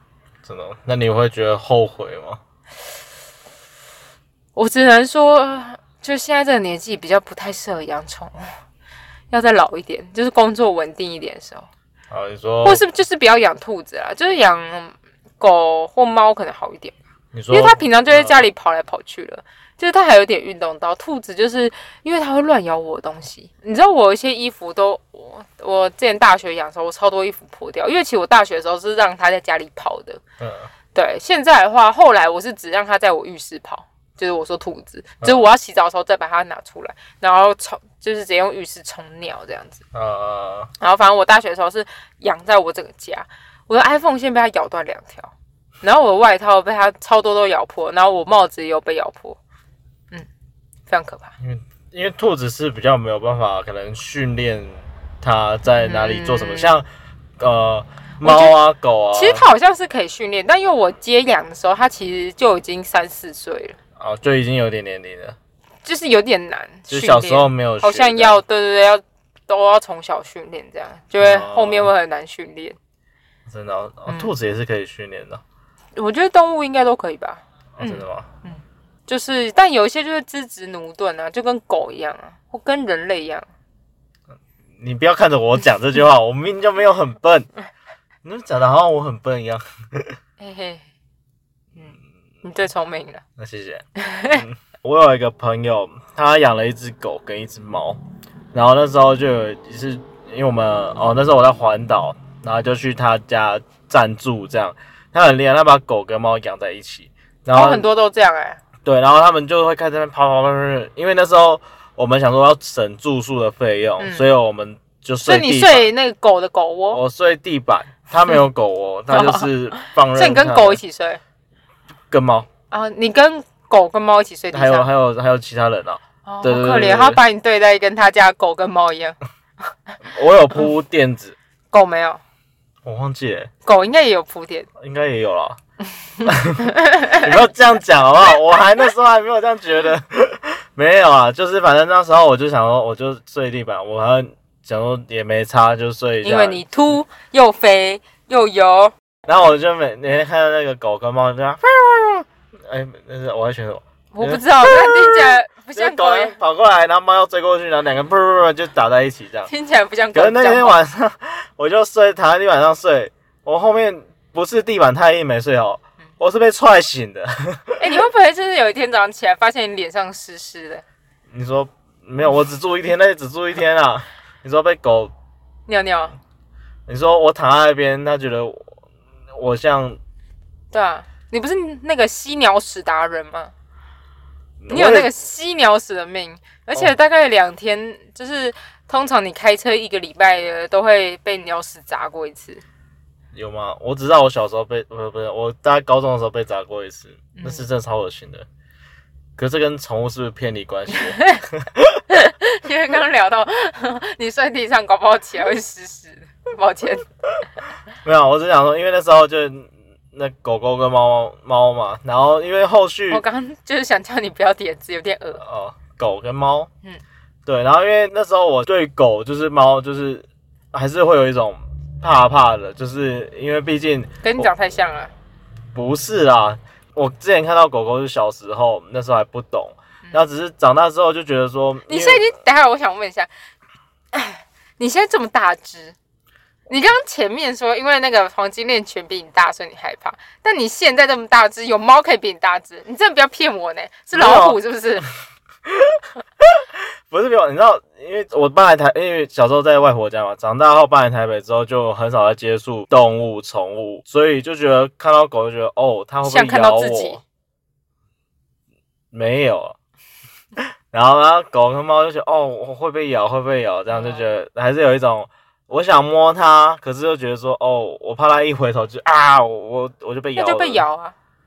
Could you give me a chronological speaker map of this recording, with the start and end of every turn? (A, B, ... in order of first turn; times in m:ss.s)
0:00.4-0:02.4 A
0:04.6-0:08.5 B
0:09.3-0:11.7 B
0:12.1-0:12.8 A
0:12.6-0:17.0 B
0:17.3-0:18.4 A
0:17.5-0:30.2 B
0:30.4-0:30.7 A
0:30.9-0:39.8 B
0:39.9-0:40.7 A
0:40.8-0:49.4 B
0:50.9-0:51.3 B
0:51.4-0:56.8 A
0:55.7-0:56.8 B
0:57.4-0:59.4 A
0:58.2-0:58.6 B
0:59.1-1:03.8 B
1:04.0-1:05.4 A
1:05.8-1:12.8 B
1:06.9-1:08.4 A
1:11.2-1:11.9 A
1:13.5-1:15.4 A
1:14.1-1:14.3 B
1:16.0-1:23.4 B
1:17.8-1:18.3 A
1:24.8-1:27.5 A
1:28.2-1:30.2 A
1:30.4-1:30.8 B
1:31.8-1:33.2 B
1:33.4-1:38.0 A
1:34.0-1:34.4 B
1:38.5-1:47.8 A
1:47.5-1:48.6 B
1:48.8-1:55.9 A
1:54.0-1:54.3 B
1:55.2-1:57.0 B
1:56.9-2:00.8 A
1:59.1-2:01.2 B
2:02.1-2:02.5 A
2:02.7-2:04.9 B
2:04.5-2:07.2 A
2:06.2-2:09.2 B
2:10.0-2:11.4 A
2:11.7-2:12.2 B
2:12.8-2:13.5 A
2:13.6-2:14.7 B
2:14.8-2:15.6 A
2:16.2-2:17.3 B
2:16.2-2:26.6 A
2:26.2-2:28.9 B
2:29.2-2:39.5 A
2:34.1-2:36.3 B
2:39.5-2:40.8 B
2:40.1-2:47.8 A
2:47.8-2:50.8 B
2:51.3-2:55.1 A
2:55.7-2:56.2 B
2:56.9-2:58.7 A
2:59.3-3:00.0 A
3:00.7-3:03.5 B
3:04.6-3:05.1 A
3:04.7-3:12.6 B
3:13.3-3:18.4 A
3:17.3-3:17.7 B
3:19.4-3:22.0 A
3:20.9-3:21.4 B
3:22.1-3:27.0 B
3:28.0-3:33.2 A
3:33.1-3:35.4 B
3:35.4-3:36.7 A
3:37.4-3:44.5 A
3:44.2-3:45.1 B
3:45.7-3:52.3 A
3:51.9-3:53.3 B
3:54.1-3:56.0 B
3:56.7-4:05.1 B
4:04.1-4:04.6 A
4:05.6-4:17.2 A
4:16.2-4:17.2 B
4:19.1-4:19.8 A
4:20.6-4:30.8 A
4:23.9-4:24.2 B
4:30.4-4:31.1 B